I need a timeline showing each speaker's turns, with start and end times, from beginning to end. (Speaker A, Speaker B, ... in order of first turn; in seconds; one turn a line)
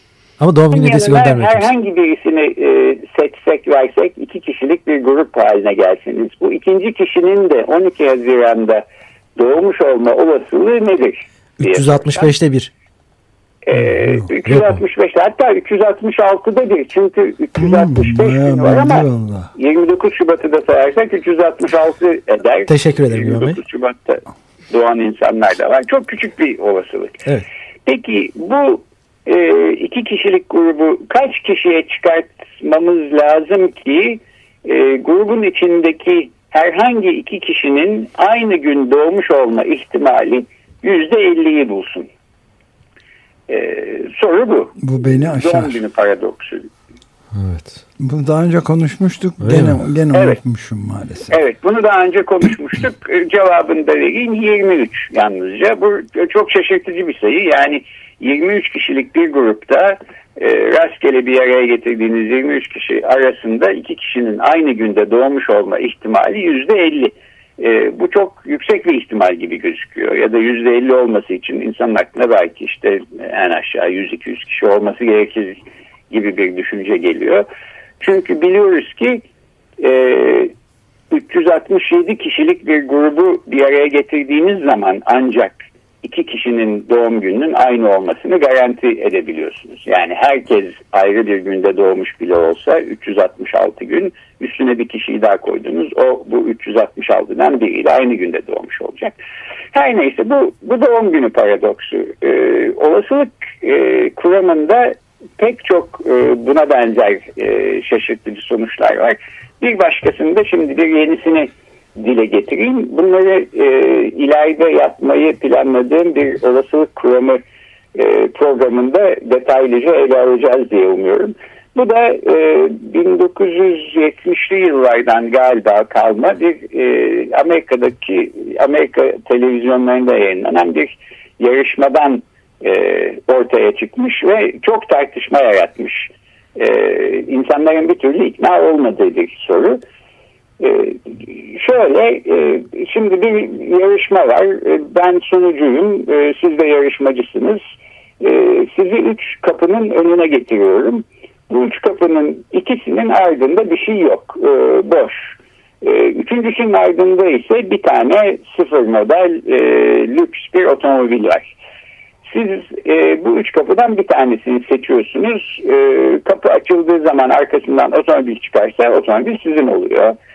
Speaker A: 0.4-1.7
Speaker B: 0.7-8.8
Speaker B: 9.4-12.3
Speaker A: 11.6-12.7
Speaker B: 13.7-27.2
Speaker A: 14.5-14.8
Speaker C: 17.6-19.5
Speaker A: 22.7-23.6
Speaker B: 27.9-42.1
Speaker B: 43.5-46.7
Speaker C: 44.8-45.8
Speaker A: 47.3-47.8
Speaker C: 48.0-51.4
Speaker A: 49.4-49.8
Speaker B: 51.3-77.5
Speaker B: 78.0-79.2
Speaker B: 79.8-80.5
Speaker B: 81.1-99.2
Speaker B: 99.7-117.4
Speaker B: 118.0-139.8
Speaker B: 140.6-147.6
Speaker B: 148.2-161.5
Speaker B: 162.3-170.2